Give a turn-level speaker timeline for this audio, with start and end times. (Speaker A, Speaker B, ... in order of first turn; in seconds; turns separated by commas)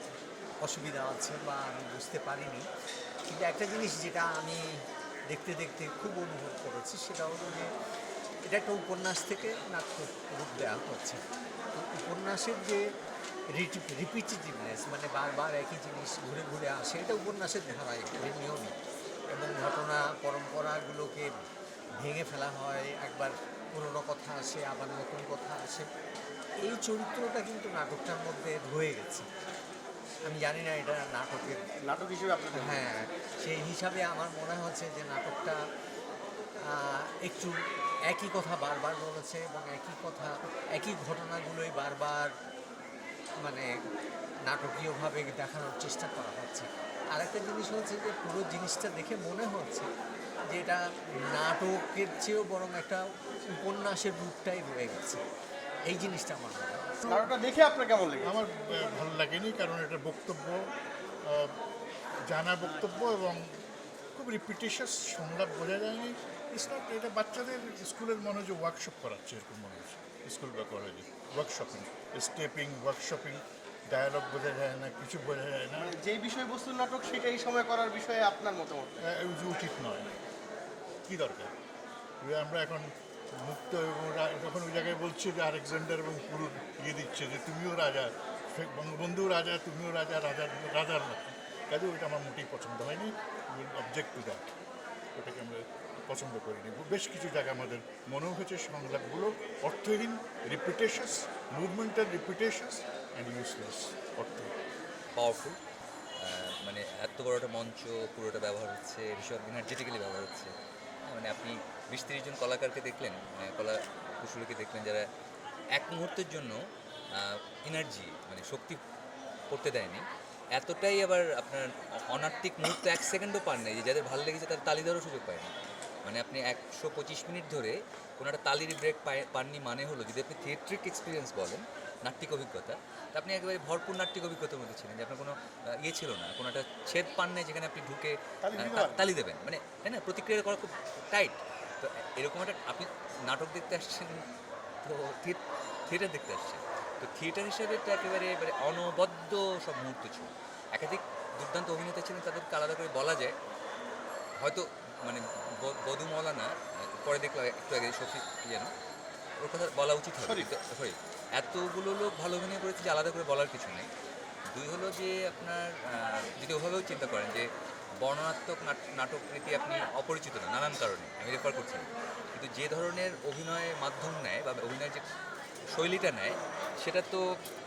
Speaker A: 0.6-2.6, Speaker A: 3.3-7.7, Speaker A: 8.5-11.2, Speaker A: 11.7-12.8, Speaker A: 13.5-18.8, Speaker A: 19.3-21.4, Speaker A: 22.0-25.9, Speaker A: 26.6-29.3, Speaker A: 30.2-31.6, Speaker B: 31.8-32.9, Speaker A: 32.5-35.6, Speaker A: 36.7-37.5, Speaker A: 38.1-42.3, Speaker A: 43.4-43.7, Speaker A: 44.5-49.9, Speaker A: 50.5-55.2, Speaker A: 55.9-56.8, Speaker C: 57.0-57.3, Speaker B: 57.1-58.3, Speaker C: 58.2-60.7, Speaker C: 61.2-61.5, Speaker C: 62.2-63.6, Speaker C: 64.1-75.9, Speaker B: 75.8-79.0, Speaker C: 79.0-80.1, Speaker C: 81.0-81.5, Speaker C: 82.2-94.5, Speaker C: 95.1-104.5, Speaker D: 105.1-105.6, Speaker D: 106.2-110.5, Speaker D: 111.0-115.0, Speaker D: 115.7-116.6, Speaker D: 117.1-118.8, Speaker D: 119.5-125.5, Speaker D: 126.0-144.2, Speaker B: 138.4-139.1, Speaker D: 144.8-153.3, Speaker D: 154.4-158.7, Speaker D: 159.4-163.9, Speaker B: 160.2-160.5, Speaker D: 164.5-167.5, Speaker D: 168.0-175.0, Speaker D: 175.7-177.2